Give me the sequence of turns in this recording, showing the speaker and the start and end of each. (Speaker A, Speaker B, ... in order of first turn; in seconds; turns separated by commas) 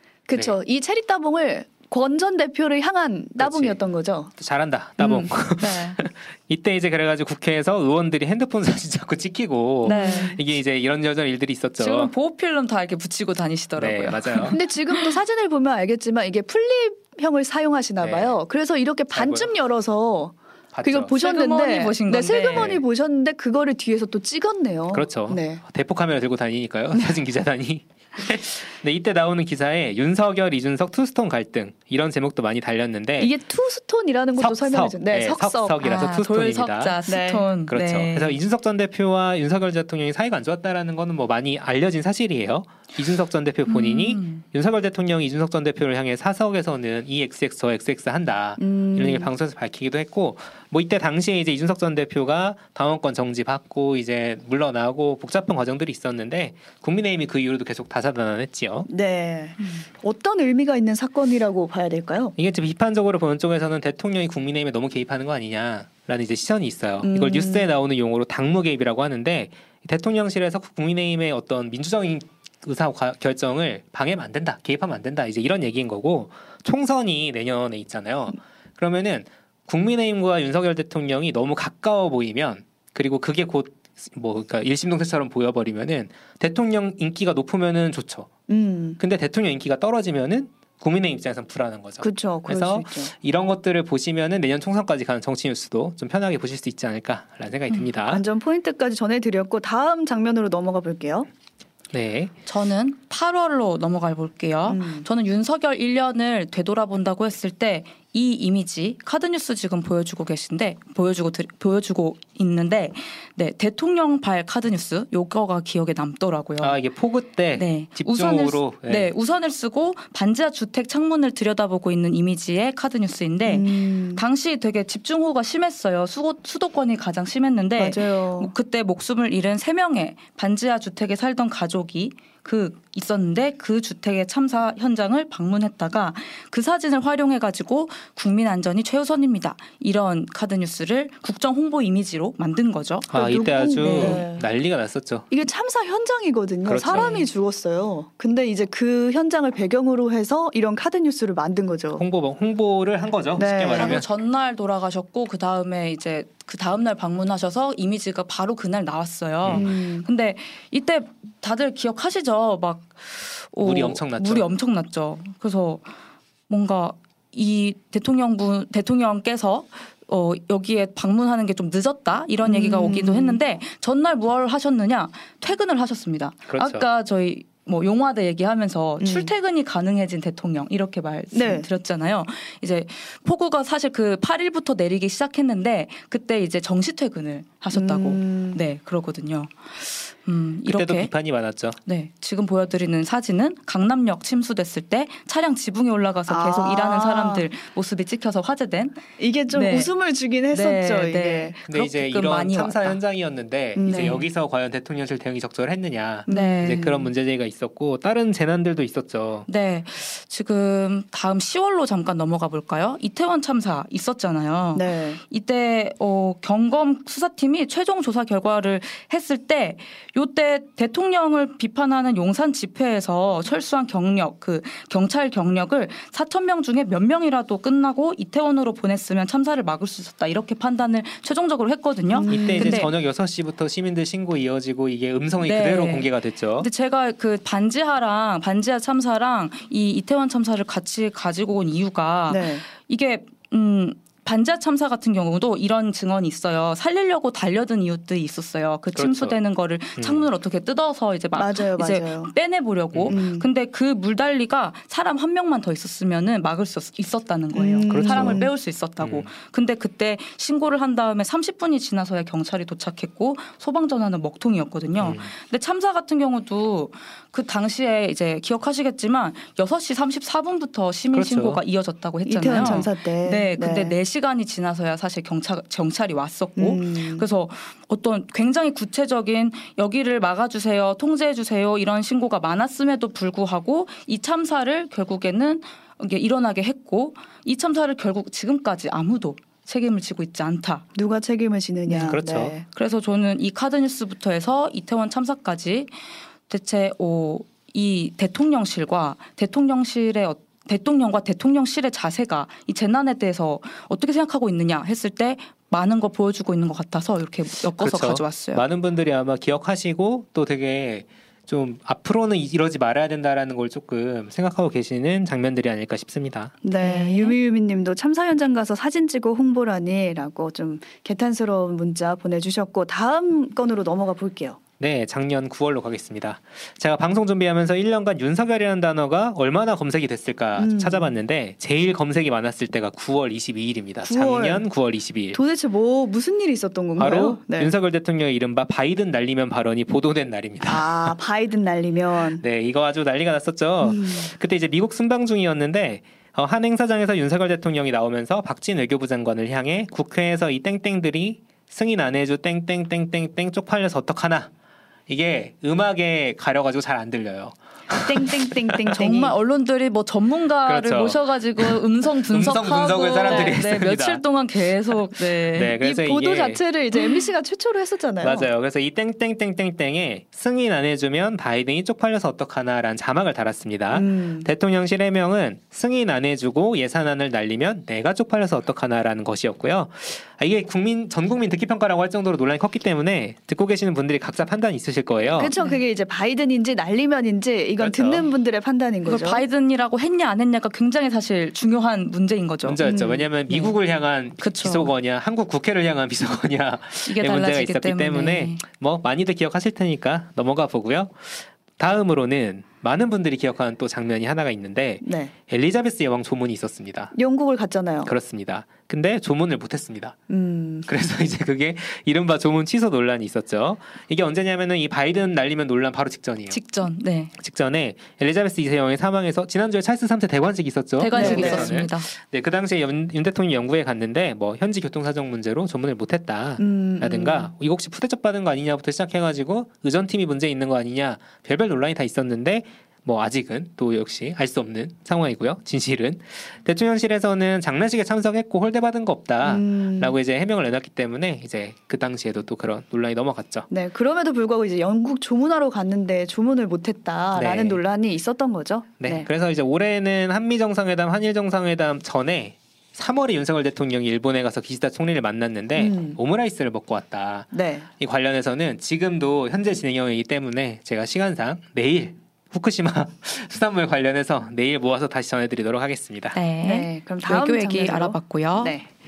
Speaker A: 0.3-4.3, Speaker B: 3.4-3.8, Speaker B: 4.4-12.1, Speaker A: 5.0-5.3, Speaker C: 5.6-6.0, Speaker C: 9.8-10.4, Speaker A: 9.8-10.3, Speaker C: 11.8-15.2, Speaker B: 13.8-14.6, Speaker A: 14.5-25.6, Speaker B: 18.0-18.4, Speaker B: 19.1-19.5, Speaker B: 20.7-21.1, Speaker C: 21.1-22.7, Speaker B: 22.5-22.8, Speaker B: 24.9-33.3, Speaker A: 33.2-35.8, Speaker B: 34.4-37.0, Speaker C: 35.8-38.4, Speaker A: 37.1-37.5, Speaker B: 37.7-58.9, Speaker C: 43.7-44.4, Speaker A: 48.6-49.3, Speaker A: 58.9-62.4, Speaker B: 62.4-88.3, Speaker A: 67.0-67.7, Speaker A: 88.5-89.0, Speaker B: 89.0-98.2, Speaker A: 92.0-93.1, Speaker C: 97.7-98.0, Speaker A: 98.0-101.3, Speaker B: 101.9-102.3, Speaker C: 102.5-116.8, Speaker A: 104.7-105.1, Speaker B: 116.6-119.1, Speaker C: 117.5-143.1, Speaker A: 123.5-124.2, Speaker A: 127.8-128.5, Speaker B: 143.1-145.3, Speaker A: 143.1-144.4, Speaker C: 143.9-144.2, Speaker A: 145.3-152.0, Speaker B: 146.7-147.2, Speaker B: 152.0-154.1, Speaker A: 153.3-154.0, Speaker C: 153.7-165.8, Speaker A: 159.5-160.1, Speaker B: 163.6-164.5, Speaker C: 166.5-191.1, Speaker A: 172.4-173.4, Speaker B: 176.5-176.8, Speaker A: 179.0-179.3, Speaker A: 181.3-181.7, Speaker A: 187.7-188.6, Speaker B: 190.7-191.8, Speaker C: 191.8-199.9, Speaker A: 196.3-197.4, Speaker A: 199.2-201.6, Speaker C: 200.5-203.0, Speaker B: 201.7-209.5, Speaker A: 203.8-204.2, Speaker C: 203.8-204.3, Speaker A: 206.3-207.0, Speaker C: 206.3-207.1, Speaker C: 209.5-232.9, Speaker A: 214.7-215.2, Speaker A: 232.1-232.9, Speaker B: 232.3-236.7, Speaker C: 235.4-290.8, Speaker A: 242.3-242.6, Speaker B: 248.9-249.4, Speaker B: 250.0-250.3, Speaker A: 251.4-252.3, Speaker B: 252.9-253.2, Speaker A: 253.1-253.4, Speaker A: 257.5-258.5, Speaker B: 257.8-258.5, Speaker B: 259.0-259.3, Speaker B: 265.0-265.3, Speaker B: 271.1-271.6, Speaker A: 272.2-273.9, Speaker A: 276.6-277.3, Speaker A: 290.9-292.6, Speaker B: 291.9-292.5, Speaker C: 292.7-295.9, Speaker C: 296.5-308.6, Speaker B: 307.8-316.5, Speaker A: 316.6-324.6, Speaker C: 316.8-317.4, Speaker B: 324.8-335.4, Speaker A: 330.6-331.1, Speaker A: 334.0-334.6, Speaker A: 335.3-337.7, Speaker B: 337.0-341.1, Speaker A: 340.6-342.4, Speaker B: 342.4-354.5, Speaker A: 343.8-344.3, Speaker B: 355.1-358.9, Speaker A: 358.0-359.4, Speaker C: 358.9-365.8, Speaker B: 360.6-364.2, Speaker B: 364.9-366.6, Speaker A: 365.8-368.5, Speaker B: 368.2-385.5, Speaker A: 373.9-374.5, Speaker A: 385.3-389.4, Speaker B: 387.8-388.3, Speaker C: 389.0-392.8, Speaker B: 392.6-407.1, Speaker A: 392.8-393.3, Speaker C: 393.5-393.8, Speaker C: 394.4-394.9, Speaker C: 397.0-398.6, Speaker A: 405.0-405.3, Speaker A: 407.1-408.1, Speaker B: 408.1-410.1, Speaker A: 410.3-410.9, Speaker B: 410.9-416.6, Speaker C: 416.5-417.3, Speaker B: 417.4-443.7, Speaker C: 421.0-422.1, Speaker A: 421.1-421.8, Speaker A: 426.6-427.5, Speaker A: 439.4-440.2, Speaker A: 443.7-449.3, Speaker B: 447.3-447.8, Speaker B: 449.0-466.4, Speaker A: 455.8-456.2, Speaker A: 457.5-457.9, Speaker C: 466.3-468.7, Speaker A: 466.6-468.9